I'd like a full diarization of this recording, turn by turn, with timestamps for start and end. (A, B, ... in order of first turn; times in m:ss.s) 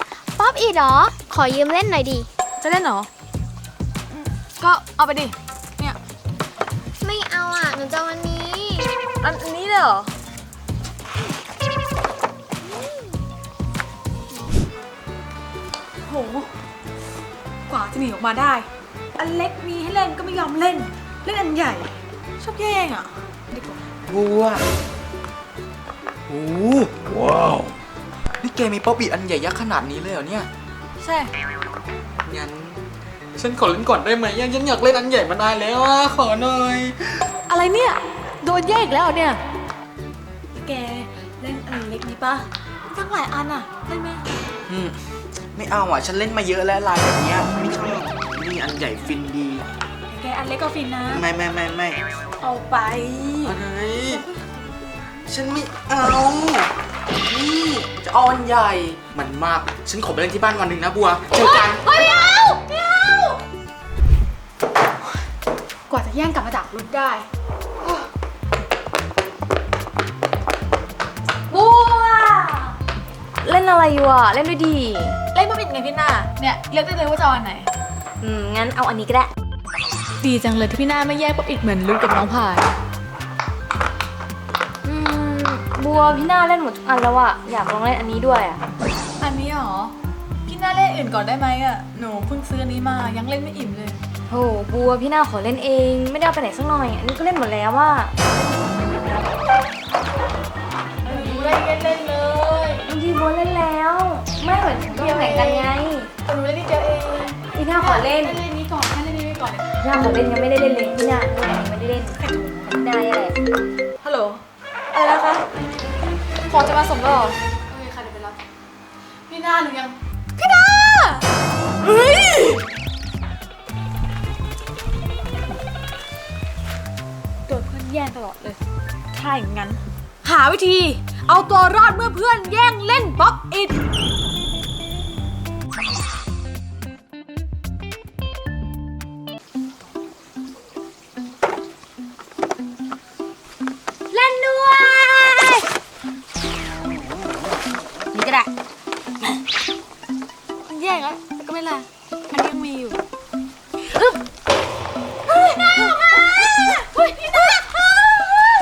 0:00.4-0:02.3 A
0:02.6-0:03.1 B
0:04.1-0:06.0 B
0:07.0-0:09.0 A
0:09.2-0:10.1 B
0:16.0-0:16.5 B
0:17.7-0:23.7 B
0:24.1-0:24.6 C
0:26.3-0:27.7 C
0:28.4-0:30.5 C
0:31.0-0:31.3 B
0:32.2-0:32.8 C
0:33.4-0:37.3 C
0:37.5-0:39.4 B
0:40.5-0:44.3 B
0:44.7-0:45.0 C
0:45.5-0:49.6 C
0:50.1-0:51.2 B
0:51.1-0:52.0 C
0:52.4-0:55.2 B
0:53.4-0:54.2 C
0:55.3-0:56.7 C
0:57.3-1:02.2 C
1:01.4-1:03.4 B
1:05.9-1:07.3 B
1:11.5-1:12.6 D
1:13.4-1:15.2 D
1:15.3-1:17.7 B
1:18.2-1:19.3 D
1:20.2-1:22.7 B
1:24.8-1:28.6 D
1:29.2-1:29.9 B
1:30.5-1:34.0 B
1:34.3-1:38.1 D
1:41.0-1:41.6 D
1:41.0-1:42.8 B
1:42.8-1:46.1 D
1:44.9-1:45.7 B
1:46.2-1:49.8 B
1:47.5-1:48.4 D
1:49.8-1:53.4 D
1:52.2-1:52.8 B
1:54.0-1:54.4 B
1:54.9-1:55.4 B
1:56.5-1:58.4 B
1:59.3-2:01.2 B
2:01.8-2:02.6 B
2:07.5-2:08.6 B
2:09.1-2:13.8 B
2:24.1-2:25.5 D
2:28.1-2:28.5 D
2:30.6-2:33.0 B
2:33.9-2:34.2 B
2:35.3-2:38.0 B